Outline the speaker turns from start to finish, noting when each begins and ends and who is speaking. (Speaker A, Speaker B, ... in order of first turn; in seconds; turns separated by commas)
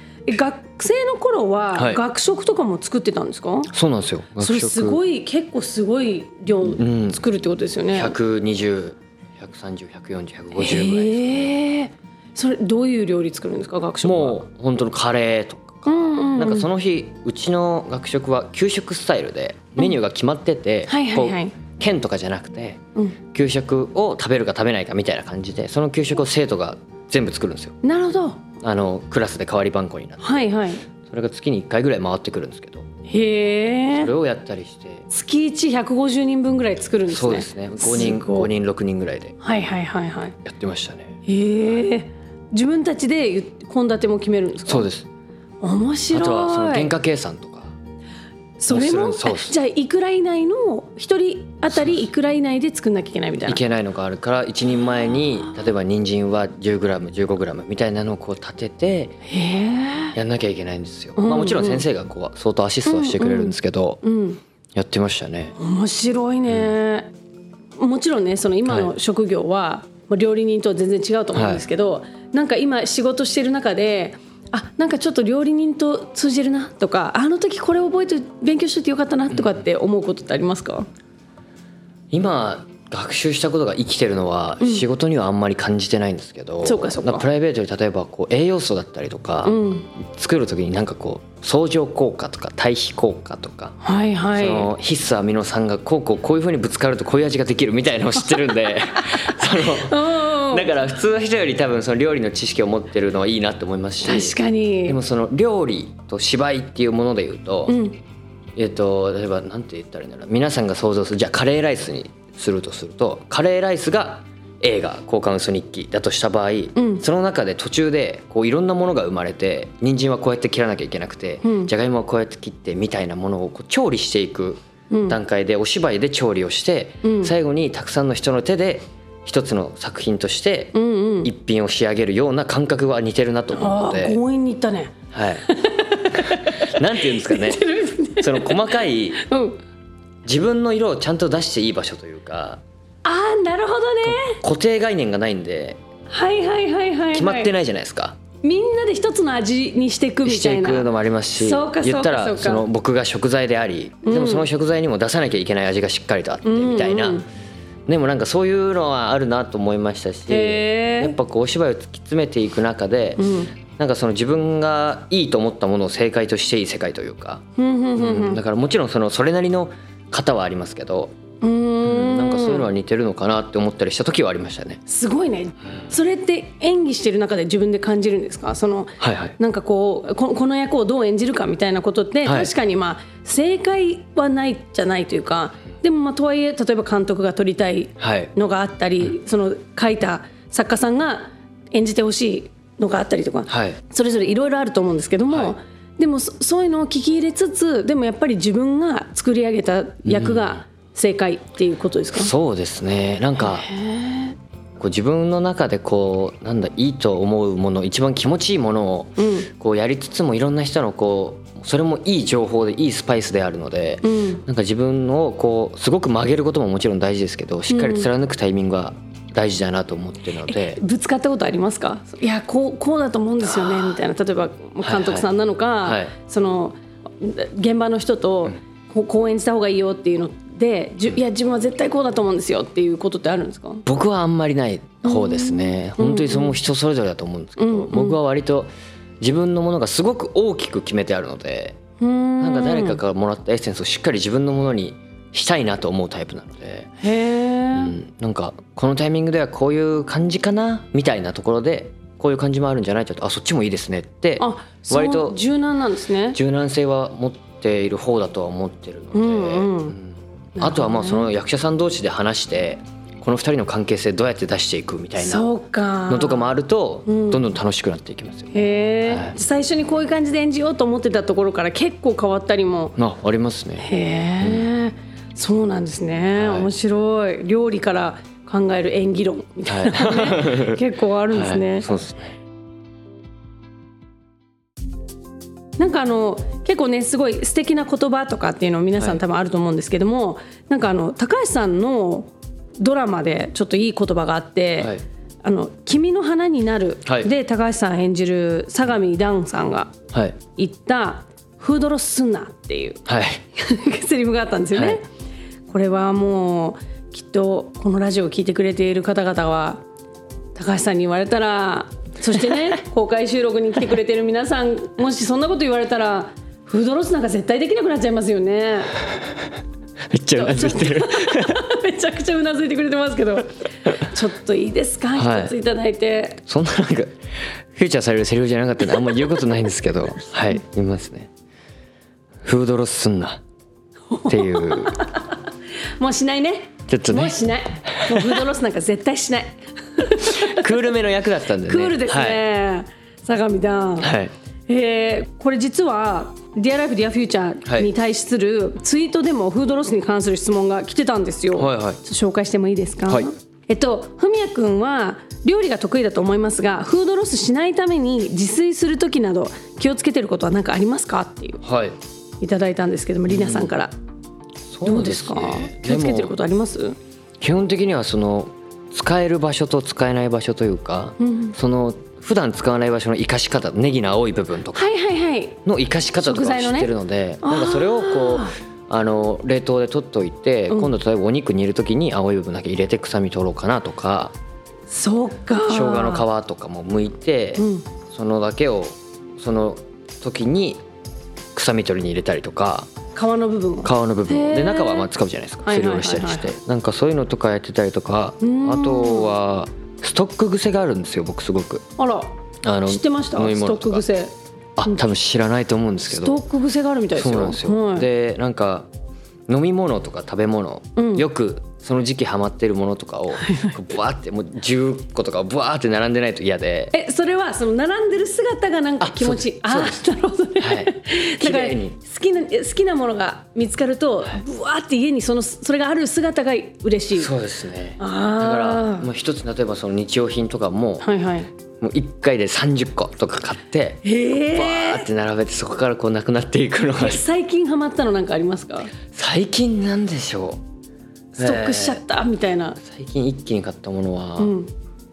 Speaker A: 0.3-3.7, Speaker B: 1.8-2.0, Speaker B: 3.7-5.0, Speaker A: 4.4-8.2, Speaker B: 6.7-7.2, Speaker B: 7.9-11.4, Speaker A: 10.6-14.4, Speaker B: 14.0-22.8, Speaker A: 15.9-16.7, Speaker A: 20.9-21.6, Speaker B: 23.3-27.8, Speaker A: 27.8-28.4, Speaker B: 28.6-30.5, Speaker A: 30.2-30.8, Speaker B: 31.1-32.9, Speaker A: 33.1-34.1, Speaker B: 33.9-35.0, Speaker A: 35.1-38.5, Speaker B: 37.1-39.3, Speaker A: 39.4-40.4, Speaker B: 40.5-41.2, Speaker A: 41.3-44.9, Speaker B: 44.7-45.1, Speaker A: 45.6-46.9, Speaker B: 46.1-47.7, Speaker A: 48.6-53.6, Speaker B: 48.7-49.6, Speaker B: 53.5-59.2, Speaker A: 59.3-60.2, Speaker B: 60.1-64.0, Speaker A: 61.2-61.9, Speaker A: 62.9-64.4, Speaker B: 64.8-65.5, Speaker A: 65.6-67.1, Speaker A: 67.8-80.9, Speaker B: 71.3-71.6, Speaker B: 79.3-79.6, Speaker B: 82.1-93.8, Speaker A: 86.6-87.3, Speaker A: 89.4-89.9, Speaker A: 93.8-94.7, Speaker B: 94.3-107.8, Speaker A: 99.1-100.7, Speaker A: 104.0-105.0, Speaker A: 107.7-108.0, Speaker B: 108.6-134.2, Speaker A: 116.8-117.0, Speaker A: 121.4-121.7, Speaker A: 124.9-125.2, Speaker A: 127.0-127.3, Speaker A: 130.7-131.3, Speaker A: 133.5-134.9, Speaker B: 135.1-135.4, Speaker A: 135.5-139.6, Speaker B: 136.3-137.7, Speaker B: 138.2-139.2, Speaker B: 140.2-142.6, Speaker A: 143.0-144.4, Speaker B: 144.0-145.8, Speaker A: 146.1-147.5, Speaker B: 147.1-148.2, Speaker A: 148.4-152.7, Speaker B: 150.2-157.2, Speaker A: 154.1-154.5, Speaker A: 156.4-157.3, Speaker B: 157.9-167.4, Speaker A: 160.3-161.2, Speaker A: 163.2-163.5, Speaker A: 167.6-168.4, Speaker B: 168.0-171.2, Speaker A: 171.4-172.7, Speaker B: 171.8-174.8, Speaker A: 174.9-202.3, Speaker B: 179.0-179.3, Speaker B: 182.2-182.5, Speaker B: 188.0-188.3, Speaker B: 193.5-193.8, Speaker B: 200.1-200.6, Speaker B: 202.1-203.7, Speaker A: 203.4-204.4, Speaker B: 204.8-220.8, Speaker A: 209.2-209.5, Speaker A: 214.0-214.4, Speaker A: 217.7-218.1, Speaker A: 220.5-233.8, Speaker B: 223.5-223.8, Speaker B: 224.8-225.3, Speaker B: 225.8-226.1, Speaker B: 233.9-241.8, Speaker A: 235.0-236.6, Speaker A: 237.6-238.2, Speaker A: 242.0-243.0, Speaker B: 242.4-246.9, Speaker A: 247.0-248.0, Speaker B: 247.7-255.4, Speaker A: 254.4-256.4, Speaker B: 256.3-265.5, Speaker A: 259.1-260.0, Speaker A: 260.6-261.3, Speaker A: 265.2-266.5, Speaker B: 266.1-268.5, Speaker A: 267.1-267.5, Speaker A: 268.5-273.0, Speaker B: 269.1-269.4, Speaker B: 273.0-273.9, Speaker A: 273.8-281.9, Speaker B: 274.4-274.7, Speaker B: 276.4-276.7, Speaker B: 279.7-282.4, Speaker A: 285.8-299.9, Speaker B: 300.1-300.4, Speaker A: 300.5-303.0, Speaker B: 303.1-303.4, Speaker A: 303.6-305.0, Speaker B: 304.7-305.0, Speaker A: 305.7-309.8, Speaker A: 310.6-319.0, Speaker B: 320.1-321.6, Speaker A: 320.3-326.4, Speaker B: 325.1-325.5, Speaker B: 326.5-327.2, Speaker B: 327.8-331.3, Speaker B: 332.4-333.4, Speaker A: 334.1-335.3, Speaker B: 334.3-335.0, Speaker A: 336.0-340.7, Speaker B: 336.9-337.4, Speaker B: 338.0-338.4, Speaker B: 340.3-342.4, Speaker A: 341.6-344.1, Speaker B: 344.0-344.3, Speaker A: 344.7-361.6, Speaker B: 351.6-352.0, Speaker B: 361.6-361.9, Speaker A: 362.4-363.9, Speaker B: 363.3-363.8, Speaker B: 364.7-366.4, Speaker A: 364.8-367.0, Speaker B: 367.4-374.9, Speaker A: 371.2-371.6, Speaker A: 374.7-375.6, Speaker B: 375.6-384.3, Speaker A: 376.2-378.5, Speaker A: 384.9-386.2, Speaker B: 385.6-390.8, Speaker A: 387.6-387.9, Speaker B: 391.5-392.9, Speaker A: 393.1-395.1, Speaker B: 393.8-401.8, Speaker A: 395.6-396.5, Speaker A: 398.4-399.3, Speaker A: 402.0-402.3, Speaker B: 402.6-404.1, Speaker A: 402.9-404.3, Speaker B: 404.8-406.4, Speaker A: 406.1-408.1, Speaker B: 407.1-408.9, Speaker B: 409.5-416.9, Speaker A: 411.0-411.3, Speaker A: 413.4-413.7, Speaker A: 416.9-427.3, Speaker B: 419.0-420.1, Speaker B: 420.6-422.0, Speaker B: 427.1-431.1, Speaker A: 428.0-429.1, Speaker A: 431.0-431.5, Speaker B: 431.8-437.2, Speaker A: 434.0-435.1, Speaker A: 436.9-438.9, Speaker B: 439.1-440.6, Speaker B: 441.4-442.0, Speaker A: 441.4-442.8, Speaker B: 442.8-444.6, Speaker A: 444.4-444.7